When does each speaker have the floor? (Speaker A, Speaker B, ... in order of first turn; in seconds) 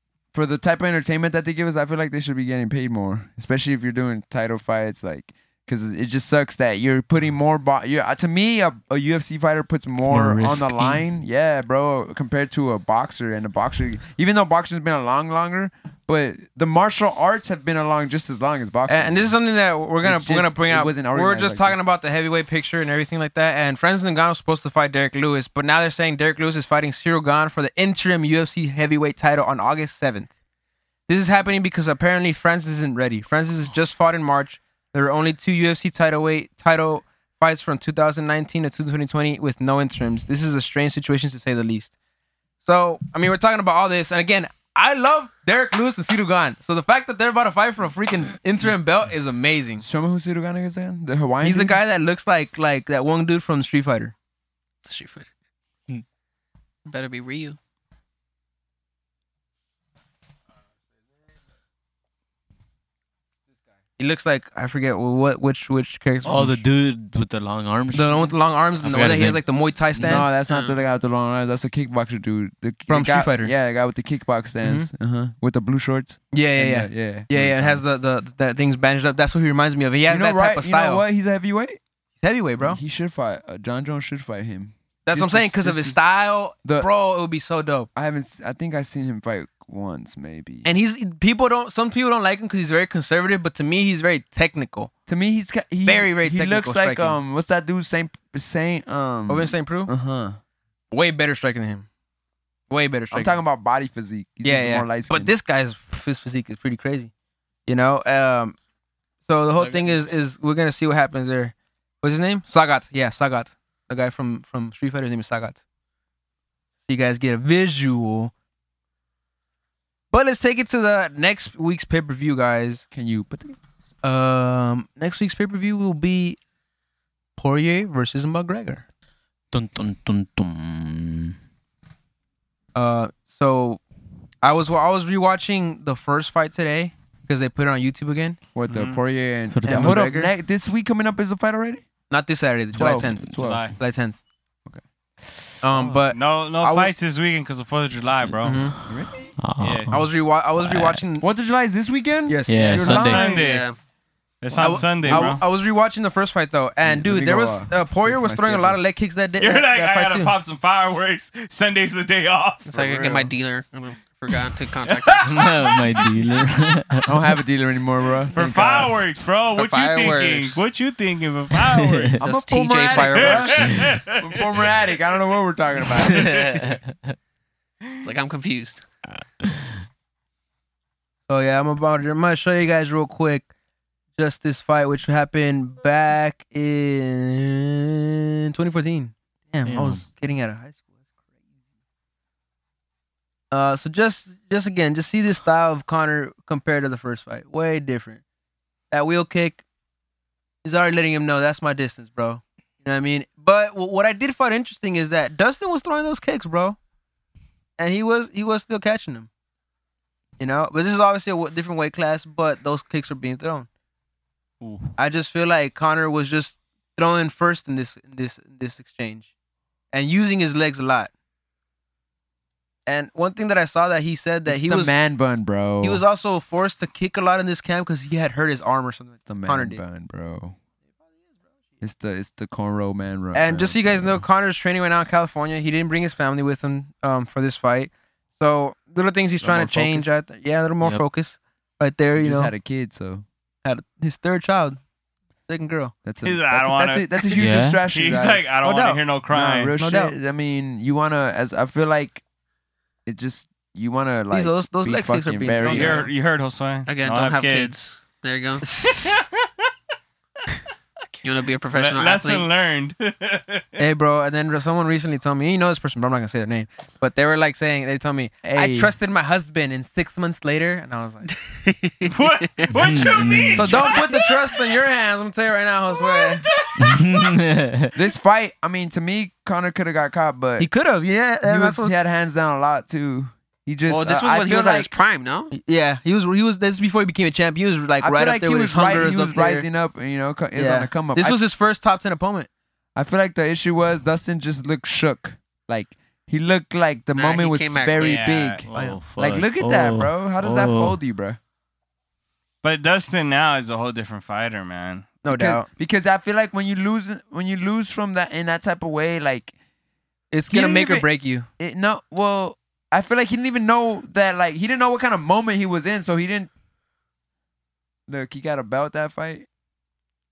Speaker A: 0.3-19.3, 20.0-21.8, 49.8-51.8, 70.0-77.8, 80.0-81.8, 82.6-86.0, 87.9-90.7, 95.1-100.4, 103.1-105.3, 122.9-123.5, 138.5-141.8, 142.7-143.8, 145.7-146.0, 151.2-153.2, 156.8-158.8, 167.1-169.1, 172.2-176.5, 224.4-226.0, 229.2-230.6, 231.8-234.2, 239.4-240.2, 242.2-243.2, 246.0-248.6, 249.3-252.2, 253.1-256.1, 268.4-268.9, 277.9-280.7, 281.4-284.9, 288.0-291.4, 292.9-301.4, 305.2-309.5, 310.5-316.5, 318.1-319.5
Speaker B: 10.1-11.0, 66.2-69.4, 109.4-110.0, 129.5-131.3, 139.5-140.0, 149.4-151.0, 152.5-153.2, 165.2-167.1, 171.7-172.2, 176.1-176.7, 189.6-190.0, 214.6-214.9, 247.3-247.8, 272.7-273.9, 276.8-277.9, 298.7-301.0
Speaker C: 18.9-30.3, 31.1-41.9, 42.6-49.8, 51.4-54.1, 64.0-66.6, 67.9-70.3, 72.9-73.5, 74.6-74.9, 76.3-81.0, 82.2-82.8, 85.1-87.9, 90.6-94.9, 95.8-97.2, 99.3-99.9, 100.9-101.9, 102.7-103.4, 104.4-107.1, 107.7-108.5, 109.3-115.6, 116.8-118.3, 120.1-122.8, 124.0-126.4, 127.4-128.8, 132.7-133.8, 134.4-138.4, 139.7-140.3, 142.1-144.2, 145.6-146.9, 148.4-148.7, 149.9-151.2, 152.3-153.1, 154.5-160.3, 181.3-183.5, 184.2-190.8, 193.5-198.2, 198.9-199.6, 200.6-206.8, 207.8-209.3, 210.4-213.7, 215.0-219.3, 219.9-221.1, 222.8-224.9, 225.8-229.8, 233.3-242.5, 243.6-244.8, 245.5-245.9, 248.6-249.0, 249.8-250.1, 254.3-256.1, 258.6-259.2, 263.8-271.3, 273.5-276.4, 280.6-281.9, 285.5-289.6, 290.5-292.5, 305.2-305.6, 310.3-311.5
Speaker D: 54.9-55.3, 56.9-57.6, 70.5-70.8, 153.2-153.8, 162.7-165.4, 169.5-170.6, 172.2-173.8, 178.0-178.8, 256.9-258.7, 261.2-262.5, 271.4-272.7, 283.9-285.5, 297.1-298.4
Speaker E: 138.7-139.0, 143.3-143.7, 146.1-149.9, 152.8-153.7, 154.4-155.4, 159.4-163.3, 164.9-166.1, 168.3-172.2, 172.9-174.4, 176.2-176.6, 246.2-249.7, 255.7-257.7, 259.0-259.4, 261.7-263.8, 272.1-274.4, 276.0-277.3, 298.0-298.6, 302.6-305.1